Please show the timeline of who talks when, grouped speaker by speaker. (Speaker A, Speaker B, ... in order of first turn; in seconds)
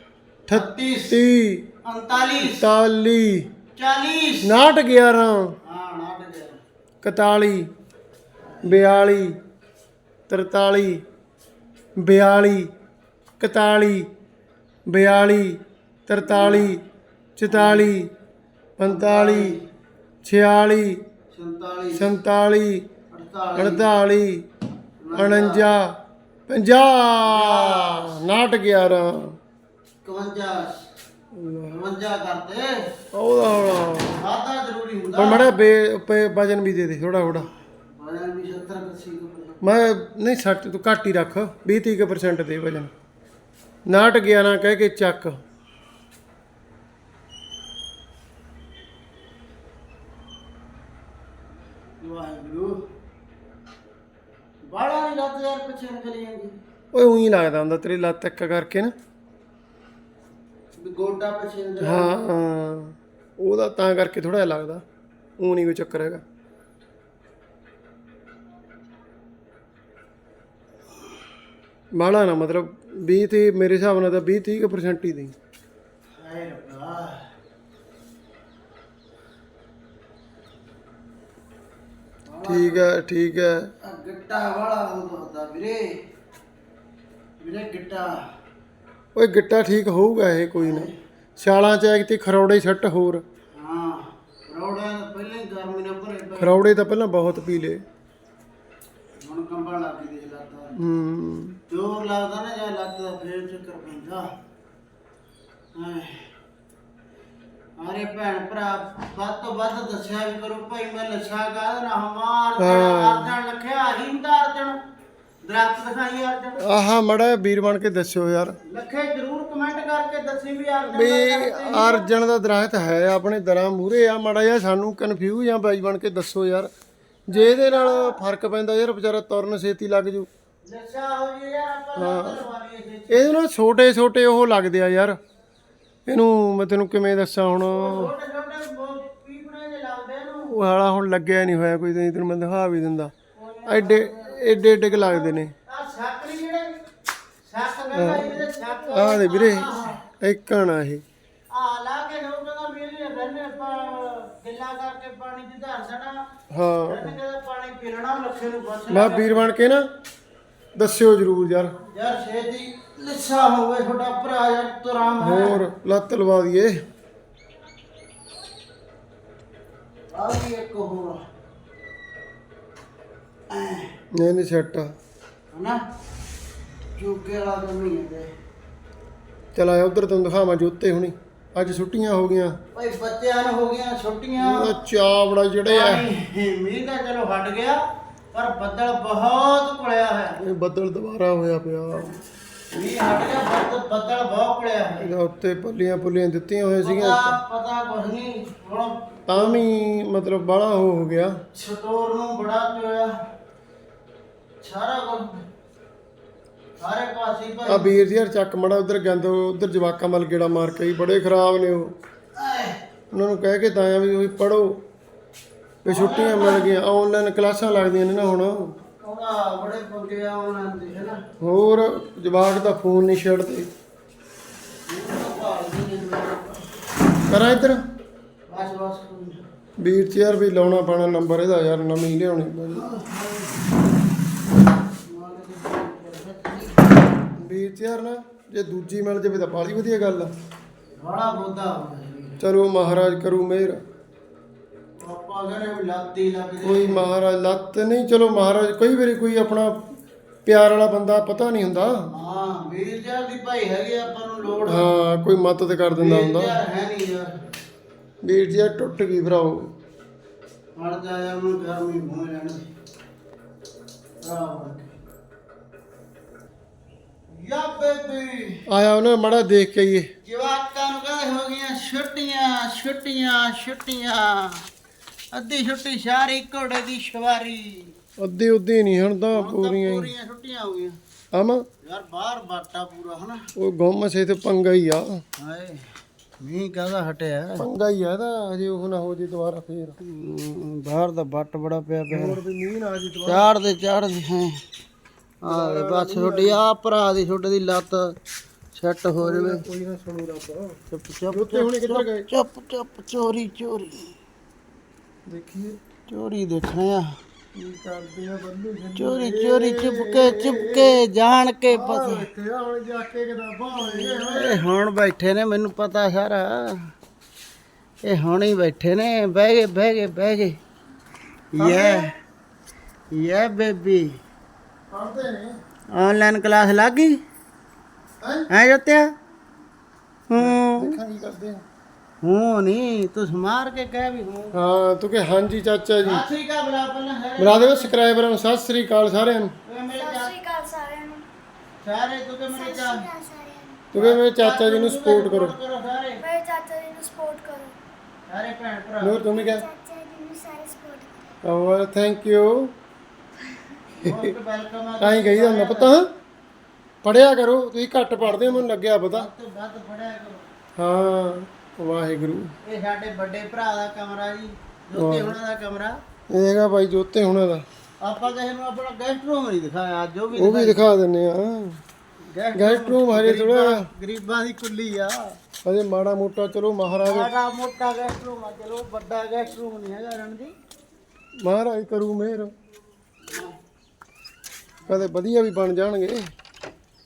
Speaker A: 0.5-1.6, 2.4-3.5, 4.4-5.5, 7.0-7.7, 8.6-9.3, 10.3-11.0, 12.0-12.7, 13.4-14.1, 14.9-16.8, 17.4-18.1, 18.8-19.6, 20.2-21.0, 21.9-22.9, 23.6-24.4, 25.1-25.9, 26.5-29.4, 31.3-31.7, 33.1-34.2, 35.1-37.5, 39.6-42.9, 43.9-45.4, 56.9-58.9, 61.8-64.8, 65.4-66.2, 71.9-75.3, 82.4-83.7, 89.1-93.2, 96.4-97.8, 100.8-101.6, 112.6-113.3, 116.6-118.6, 120.9-126.7, 127.3-130.3, 131.9-132.4, 133.1-135.2, 136.1-138.1, 140.5-143.1, 143.7-145.5, 147.9-151.0, 156.5-157.2, 158.9-159.8, 160.7-161.8, 165.2-166.8, 174.1-174.9, 179.5-182.6, 184.4-186.1, 190.4-192.1, 195.0-197.3, 199.3-201.3, 207.7-211.9, 213.1-214.8, 215.8-218.7, 221.4-223.7, 227.3-227.8, 229.8-232.8, 237.4-240.3, 242.4-243.8, 246.6-249.8, 250.4-252.0, 254.6-256.6, 258.2-259.7, 268.7-270.1, 278.2-280.1, 281.3-281.6, 283.6-285.2, 287.6-290.0, 292.1-293.5, 295.4-296.6, 299.2-302.3, 305.2-305.8, 307.6-311.0, 311.7-314.6, 321.6-322.1, 324.9-325.5, 328.2-328.4, 330.4-331.6, 334.5-336.2, 337.4-339.5, 343.9-345.5, 349.0-349.6, 351.4-352.7, 355.0-356.1, 357.0-359.3, 360.8-362.5, 364.9-365.4, 366.3-367.6, 370.3-371.8, 372.5-373.9, 375.6-377.3, 381.4-382.5, 384.9-386.2
Speaker B: 0.5-1.2, 1.8-2.6, 3.8-4.5, 5.6-6.6, 16.2-16.7, 17.5-17.9, 18.8-19.6, 21.3-22.1, 23.1-23.9, 25.0-25.7, 27.2-28.2, 30.0-30.8, 31.6-32.8, 34.1-35.5, 37.2-39.6, 52.0-52.8, 54.6-56.5, 60.8-62.1, 76.2-77.2, 82.2-82.8, 83.8-85.9, 87.4-88.2, 90.6-90.9, 93.5-96.6, 99.2-100.7, 101.7-104.3, 105.7-106.3, 107.8-114.8, 115.4-116.6, 118.6-122.1, 127.3-128.2, 130.6-133.3, 137.7-140.5, 143.3-146.8, 147.4-150.0, 151.5-156.2, 156.9-159.5, 161.9-165.6, 170.1-171.2, 173.5-173.9, 175.5-175.8, 176.9-178.3, 182.7-184.8, 185.7-187.8, 188.3-190.4, 192.7-195.1, 196.8-199.6, 201.5-203.1, 204.6-205.4, 206.8-207.9, 212.3-212.8, 215.8-216.7, 219.0-221.2, 224.9-226.6, 228.5-229.4, 232.7-233.8, 235.0-237.1, 240.9-242.4, 245.0-247.0, 252.1-254.9, 256.0-257.3, 260.7-262.6, 264.2-265.0, 267.3-268.6, 270.2-274.7, 275.3-277.9, 279.3-281.0, 281.8-283.4, 285.4-285.9, 286.4-287.6, 290.0-292.4, 293.2-294.6, 295.4-298.1, 298.7-299.6, 300.9-304.1, 306.1-307.1, 308.9-312.3, 313.8-316.8, 318.0-320.6, 321.5-322.1, 323.1-324.1, 325.9-327.2, 328.5-329.1, 330.3-331.0, 332.2-334.6, 336.0-337.9, 339.6-340.3, 341.8-343.1, 343.9-346.2, 348.3-349.2, 354.0-355.9, 358.2-360.5, 362.6-366.0, 368.0-370.8, 372.3-375.2, 377.0-380.5, 383.2-383.5
Speaker C: 339.9-341.3, 342.5-343.8, 346.2-347.8, 349.2-351.3